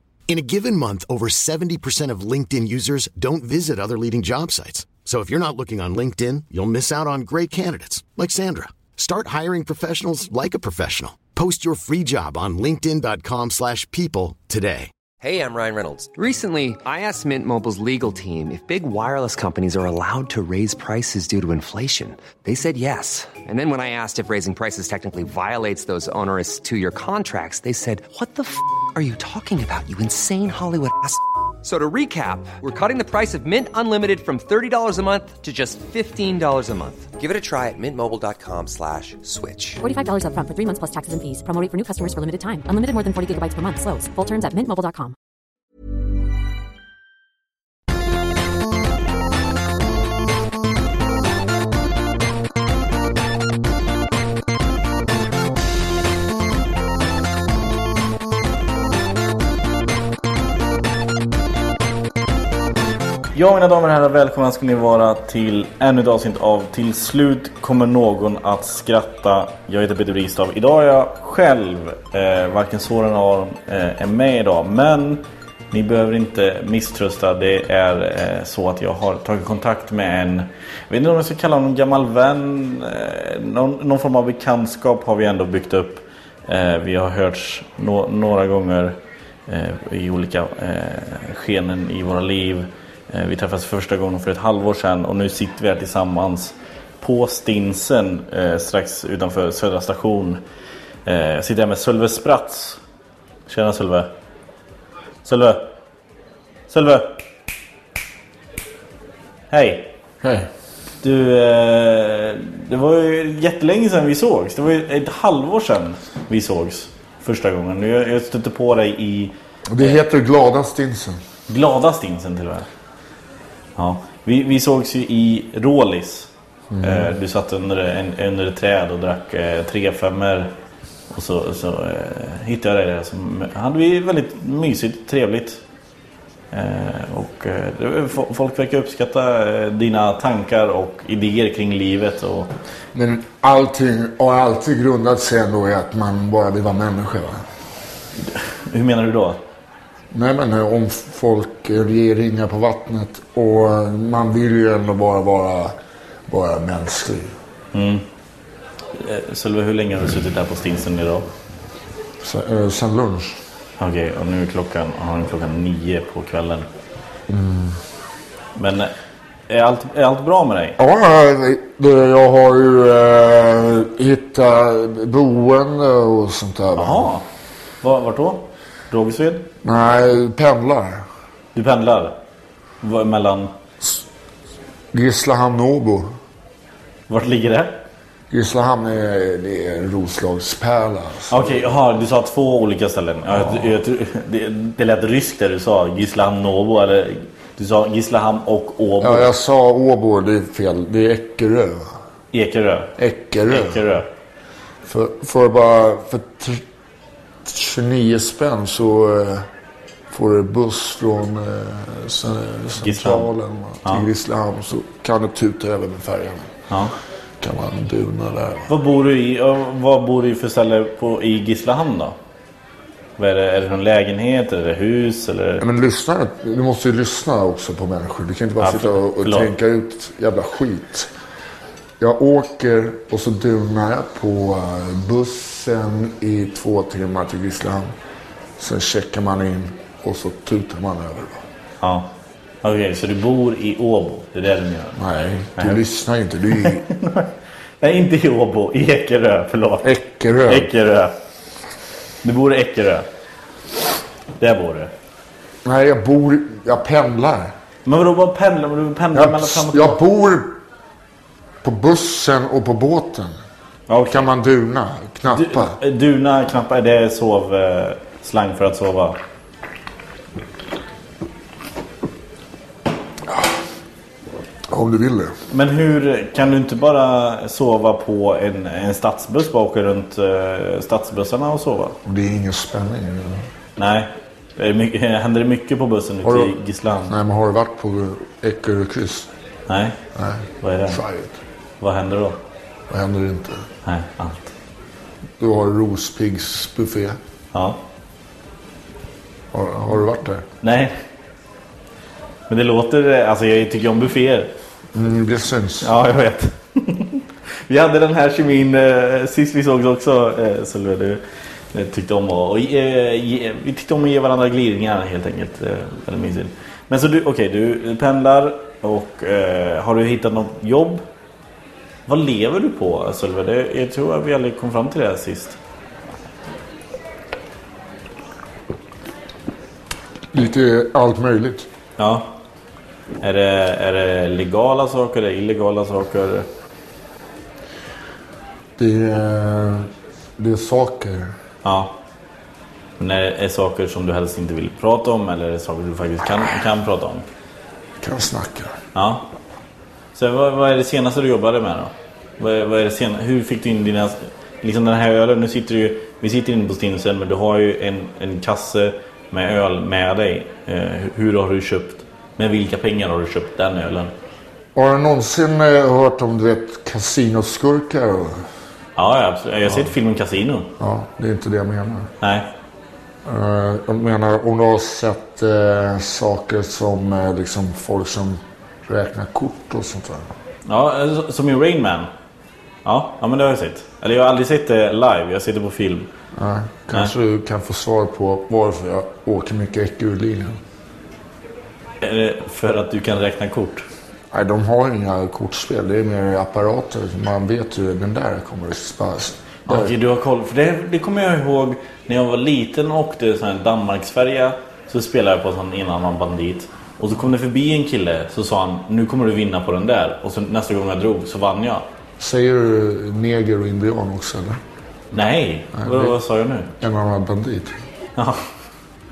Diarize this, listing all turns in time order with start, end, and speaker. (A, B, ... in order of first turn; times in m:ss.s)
0:00.3-0:14.9 A
0:15.2-0:39.8 B
0:39.8-0:45.2 C
1:03.3-1:29.0 D
1:29.5-1:40.4 D
1:41.0-1:42.8 D
1:43.5-1:44.1 D
1:45.2-1:45.7 D
1:46.7-1:47.2 D
1:49.5-1:49.9 D
1:50.2-1:50.5 E
1:51.0-2:00.0 D
1:59.7-2:01.2 E
2:01.5-2:02.7 D
2:03.8-2:06.3 D
2:06.7-2:07.2 E
2:06.8-2:10.5 D
2:11.1-2:15.6 D
2:16.5-2:22.5 D
2:22.9-2:27.4 E
2:28.3-2:29.4 D
2:30.1-2:35.8 E
2:36.3-2:37.3 E
2:37.7-2:38.0 D
2:39.0-2:41.3 D
2:42.2-2:43.4 E
2:43.8-2:46.7 D
2:47.3-2:47.8 E
2:48.6-2:48.9 D
2:49.5-2:50.8 D
2:50.8-2:57.1 E
2:56.8-2:57.3 D
2:57.8-2:59.5 D
2:59.6-3:01.1 E
3:01.6-3:02.2 D
3:02.8-3:03.5 D
3:04.9-3:06.2 E
3:07.1-3:07.8 D
3:08.3-3:11.8 E
3:11.3-3:19.3 D
3:13.3-3:13.7 E
3:19.0-3:22.0 E
3:22.3-3:23.0 D
3:23.0-3:24.0 E
3:23.5-3:24.1 D
3:24.8-3:26.6 E
3:27.5-3:29.5 E
3:30.1-3:36.5 E
3:32.8-3:33.3 D
3:37.4-3:38.7 E
3:38.7-3:42.2 D
3:43.2-3:45.6 D
3:45.6-3:51.1 E
3:48.6-3:49.5 D
3:52.0-3:58.0 E
3:58.6-4:01.4 E
4:01.8-4:02.1 D
4:02.6-4:05.0 D
4:05.0-4:06.8 E
4:06.6-4:09.9 D
4:09.8-4:10.7 E
4:10.5-4:11.2 D
4:12.2-4:13.1 D
4:14.4-4:14.9 D
4:15.6-4:17.5 E
4:17.9-4:20.0 D
4:19.1-4:20.6 E
4:21.6-4:23.4 E
4:23.9-4:24.3 D
4:24.1-4:25.8 E
4:25.3-4:29.2 D
4:34.7-4:35.4 E
4:35.5-4:42.0 D
4:42.0-4:43.4 E
4:43.8-4:47.1 D
4:46.2-4:49.3 E
4:49.7-4:50.0 D
4:50.2-4:51.4 E
4:50.6-4:51.0 D
4:51.8-4:52.4 D
4:52.9-4:53.7 E
4:53.8-4:54.5 D
4:55.4-4:57.2 E
4:57.5-4:57.8 D
4:59.5-5:00.5 E
5:00.6-5:01.0 D
5:02.5-5:04.5 D
5:04.9-5:05.9 E
5:05.8-5:11.2 D
5:11.7-5:21.0 D
5:22.1-5:25.6 D
5:30.3-5:31.7 E
5:32.0-5:32.4 D
5:33.2-5:36.5 D
5:38.8-5:41.4 E
5:41.6-5:42.0 D
5:43.0-5:47.2 D
5:48.0-5:48.8 E
5:48.9-5:49.3 D
5:50.2-6:04.1 D
6:04.8-6:08.5 E
6:09.0-6:10.7 D
6:10.8-6:12.1 E
6:12.2-6:12.5 D
6:13.2-6:20.3 E
6:20.7-6:22.1 D
6:22.8-6:26.1 D
6:26.4-6:30.6 E
6:32.0-6:33.9 D
6:34.3-6:40.0 E
6:39.7-6:51.9 D
6:52.2-6:54.6 E
6:55.1-6:56.7 D
6:55.7-6:56.2 E
6:56.8-6:57.8 E
6:58.2-6:58.4 D